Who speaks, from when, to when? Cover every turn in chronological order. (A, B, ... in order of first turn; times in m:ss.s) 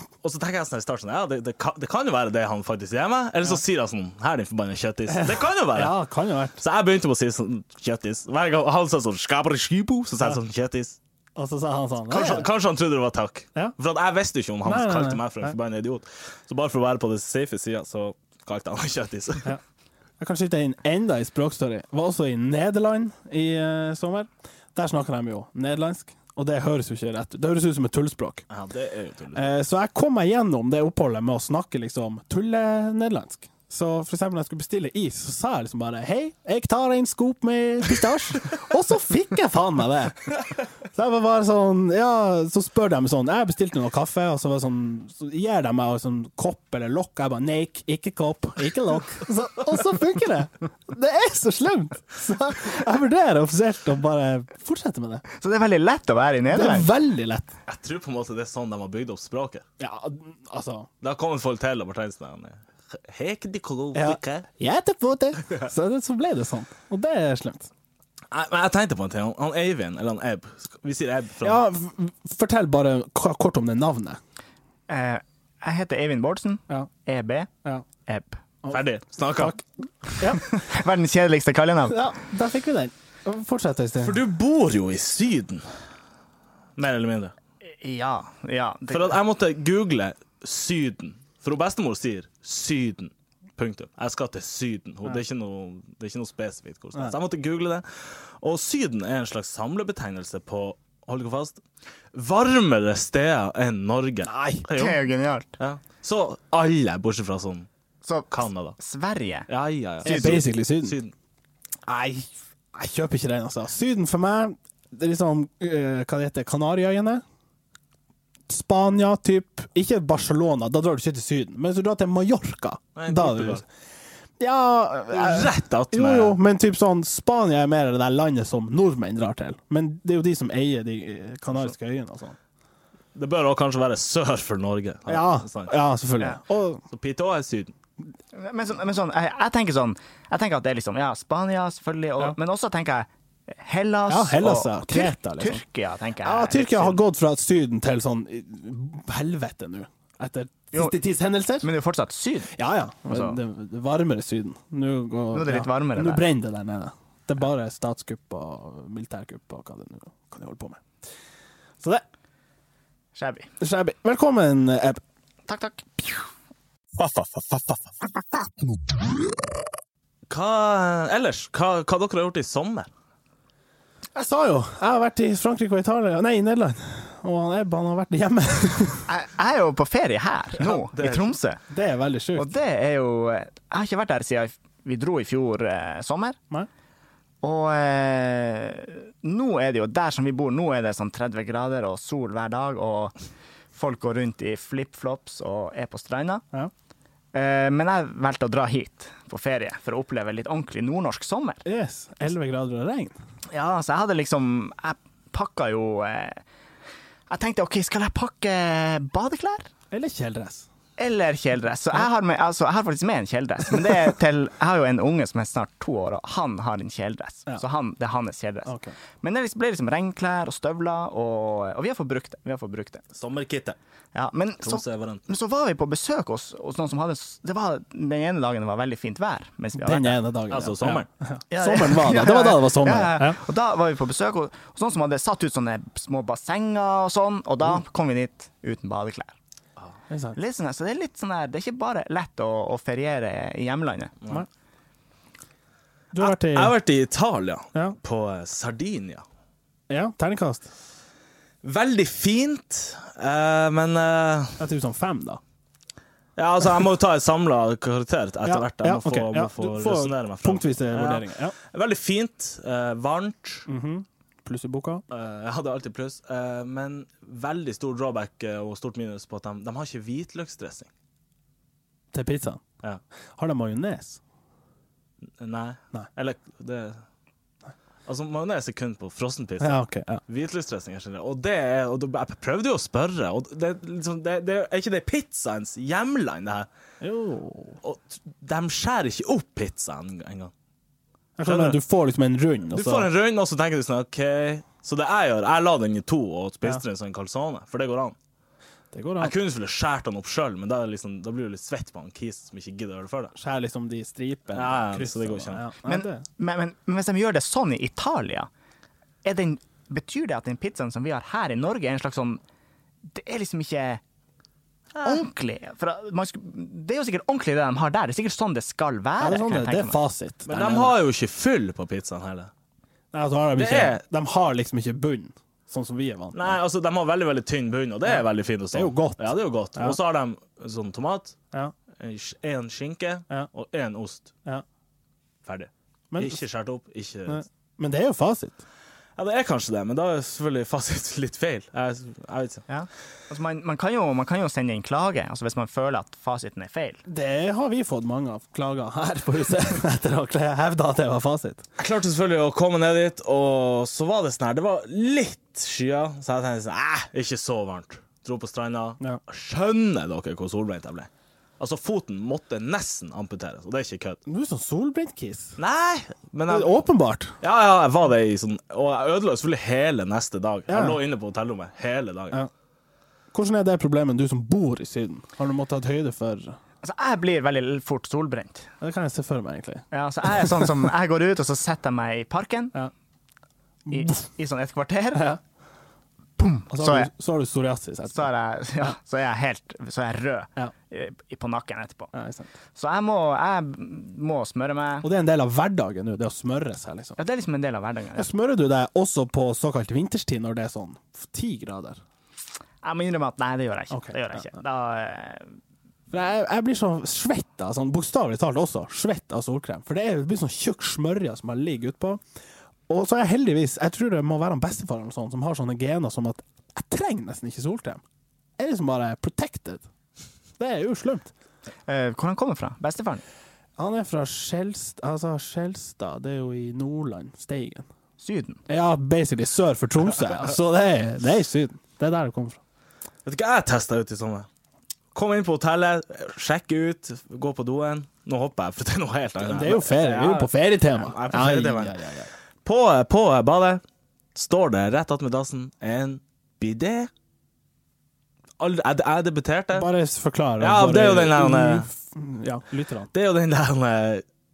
0:00.2-0:05.9 A
0:05.1-0:06.6 B
0:06.6-0:11.0 A
0:11.4-0:12.5 B
0:12.1-0:19.5 A
0:14.6-0:15.5 B
0:20.2-0:28.4 B
0:28.5-0:29.4 A
0:29.3-0:40.3 B
0:40.9-0:55.2 B
0:55.3-0:56.9 C
0:56.5-0:57.5 B
0:57.7-0:59.6 A
0:59.8-1:00.9 B
1:01.0-1:04.5 A
1:03.9-1:07.7 B
1:08.3-1:11.6 A
1:11.4-1:14.2 B
1:14.9-1:17.5 C
1:18.0-1:18.4 C
1:18.7-1:19.6 A
1:19.4-1:19.6 B
1:20.2-1:20.4 B
1:20.2-1:22.0 C
1:21.9-1:24.2 B
1:24.0-1:25.6 A
1:26.8-1:27.3 A
1:27.8-1:29.2 C
1:28.9-1:41.6 A
1:42.1-1:45.0 A
1:44.2-1:44.7 B
1:44.7-1:45.6 C
1:45.6-1:47.7 A
1:48.0-1:49.5 C
1:48.3-1:48.8 A
1:49.5-1:51.1 A
1:50.0-1:51.0 B
1:50.0-1:50.4 C
1:51.8-1:57.2 B
1:58.5-2:03.6 B
2:02.9-2:03.6 A
2:04.4-2:12.4 B
2:05.1-2:06.4 A
2:13.1-2:15.7 A
2:15.1-2:16.8 B
2:16.9-2:17.7 A
2:18.3-2:23.1 C
2:23.6-2:27.0 C
2:24.1-2:25.6 B
2:26.2-2:31.7 B
2:31.6-2:32.5 C
2:32.5-2:40.8 B
2:33.1-2:33.4 C
2:35.3-2:36.2 C
2:43.1-2:43.5 C
2:43.6-2:45.0 B
2:45.5-2:46.2 C
2:47.0-2:47.8 A
2:50.3-2:52.9 A
2:54.2-2:59.1 B
2:59.1-3:01.6 C
3:00.6-3:01.3 A
3:01.7-3:02.5 B
3:02.4-3:06.4 C
3:07.4-3:13.1 C
3:13.7-3:16.4 C
3:17.3-3:21.6 C
3:21.6-3:23.1 B
3:23.5-3:26.4 C
3:27.3-3:29.7 C
3:29.9-3:30.6 B
3:31.0-3:43.0 C
3:38.6-3:38.9 B
3:43.1-3:43.8 A
3:44.1-3:50.2 C
3:44.6-3:45.2 A
3:49.8-3:53.4 B
3:50.5-3:51.1 A
3:51.5-3:59.4 C
4:00.1-4:00.4 B
4:00.4-4:04.1 C
4:06.1-4:06.8 B
4:06.2-4:09.2 A
4:09.9-4:10.7 B
4:11.6-4:14.6 A
4:14.6-4:15.4 B
4:16.4-4:23.6 A
4:18.4-4:21.5 B
4:23.7-4:25.0 B
4:25.1-4:30.9 A
4:32.1-4:32.6 B
4:33.4-4:34.2 B
4:35.4-4:37.0 A
4:38.1-4:46.7 A
4:39.6-4:40.2 B
4:47.0-4:47.8 B
4:47.8-4:50.5 A
4:51.4-4:53.1 B
4:51.4-4:51.8 A
4:52.7-4:58.2 A
4:58.9-4:59.3 B
4:59.2-5:03.3 A
5:03.3-5:06.2 B
5:04.5-5:05.6 A
5:05.8-5:08.5 C
5:09.2-5:12.4 C
5:13.1-5:14.0 C
5:14.9-5:15.2 A
5:15.0-5:20.0 C
5:19.2-5:20.9 B
5:20.5-5:22.5 A
5:23.1-5:26.6 B
5:23.6-5:24.0 A
5:26.3-5:31.4 A
5:28.0-5:30.0 B
5:32.0-5:34.3 A
5:35.4-5:37.4 A
5:36.1-5:36.4 B
5:37.3-5:38.6 B
5:39.2-5:42.6 A
5:42.7-5:47.0 C
5:47.1-5:51.6 B
5:51.8-6:04.2 A
6:04.2-6:05.6 B
6:05.6-6:06.8 A
6:06.5-6:07.4 B
6:07.4-6:12.4 A
6:10.7-6:11.0 B
6:13.3-6:16.6 B
6:16.8-6:18.7 C
6:18.8-6:20.7 B
6:19.9-6:22.7 C
6:23.9-6:24.2 B
6:23.9-6:25.3 C
6:25.1-6:25.4 B
6:26.4-6:27.1 C
6:26.7-6:28.3 B
6:28.1-6:32.1 C
6:32.1-6:32.5 B
6:32.7-6:35.1 C
6:35.0-6:37.2 B
6:37.2-6:38.3 C
6:38.2-6:42.0 B
6:42.8-6:45.6 C
6:43.9-6:44.4 B
6:46.1-6:52.2 B
6:52.9-6:58.0 B
6:58.6-6:59.8 B
7:00.6-7:01.3 B
7:01.9-7:03.2 C
7:03.8-7:07.9 B
7:08.2-7:08.6 C
7:08.7-7:12.6 B
7:13.2-7:14.5 A
7:15.1-7:22.0 A
7:19.4-7:22.3 B
7:22.6-7:23.8 A
7:24.3-7:27.1 A
7:28.6-7:29.9 A
7:29.7-7:33.1 B
7:30.6-7:31.9 A
7:33.1-7:34.2 A